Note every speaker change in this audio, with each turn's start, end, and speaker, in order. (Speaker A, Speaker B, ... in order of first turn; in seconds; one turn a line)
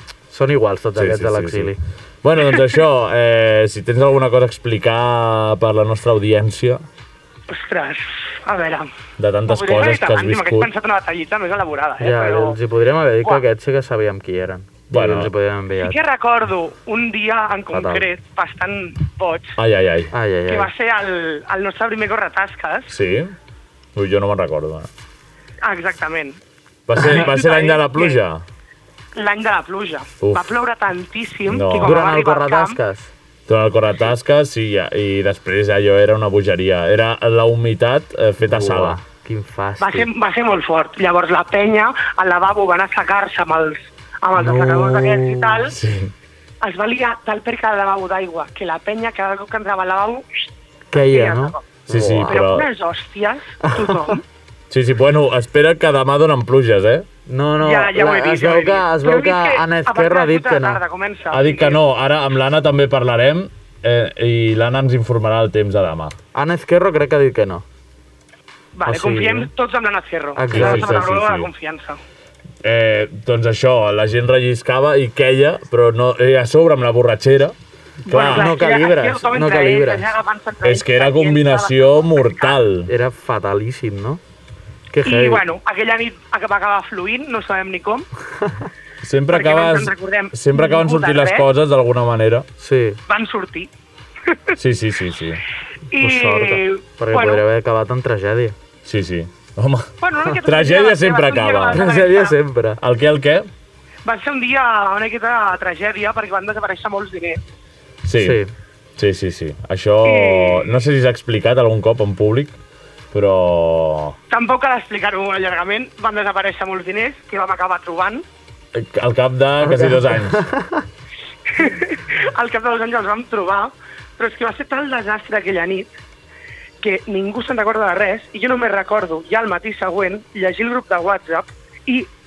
Speaker A: 0.3-1.8
Speaker B: 0.9-6.8
Speaker C: 7.5-8.9
Speaker B: 9.2-10.7
Speaker C: 9.4-12.6
Speaker A: 12.0-15.9
Speaker B: 14.9-15.3
Speaker C: 15.8-19.6
Speaker A: 17.7-18.0
Speaker B: 19.6-20.1
Speaker A: 20.1-20.7
Speaker C: 20.5-22.9
Speaker B: 22.9-23.3
Speaker B: 23.9-24.9
Speaker C: 25.6-26.4
Speaker B: 26.9-28.4
Speaker C: 27.0-28.2
Speaker C: 29.1-32.8
Speaker B: 30.2-30.5
Speaker B: 31.5-32.0
Speaker A: 31.8-33.1
Speaker B: 33.5-39.0
Speaker A: 38.4-40.1
Speaker C: 39.8-45.7
Speaker A: 44.3-45.6
Speaker B: 45.6-46.1
Speaker C: 46.6-50.3
Speaker A: 50.9-52.4
Speaker C: 50.9-51.6
Speaker B: 51.9-52.7
Speaker C: 52.3-54.2
Speaker A: 53.6-54.1
Speaker B: 54.7-57.1
Speaker A: 57.3-60.8
Speaker C: 57.6-61.8
Speaker B: 61.3-66.2
Speaker A: 66.3-67.6
Speaker C: 68.7-72.0
Speaker A: 68.8-69.5
Speaker A: 70.3-71.0
Speaker B: 70.5-71.5
Speaker B: 72.6-77.5
Speaker B: 78.1-78.6
Speaker C: 78.1-82.6
Speaker A: 78.2-80.1
Speaker B: 80.6-82.9
Speaker A: 82.9-84.2
Speaker A: 84.9-85.4
Speaker C: 85.0-88.1
Speaker B: 89.0-92.5
Speaker C: 89.3-91.4
Speaker A: 92.6-93.0
Speaker C: 93.1-93.7
Speaker C: 94.3-94.5
Speaker B: 94.5-95.4
Speaker C: 95.9-97.4
Speaker A: 96.0-98.5
Speaker B: 98.8-101.9
Speaker C: 100.0-102.4
Speaker A: 101.7-102.8
Speaker B: 102.8-103.5
Speaker C: 104.0-107.4
Speaker B: 108.0-108.4
Speaker A: 108.2-108.5
Speaker B: 109.0-112.6
Speaker C: 110.0-110.7
Speaker B: 113.1-114.2
Speaker C: 114.3-118.2
Speaker B: 118.7-120.4
Speaker A: 119.6-120.8
Speaker C: 121.5-125.8
Speaker C: 126.8-132.1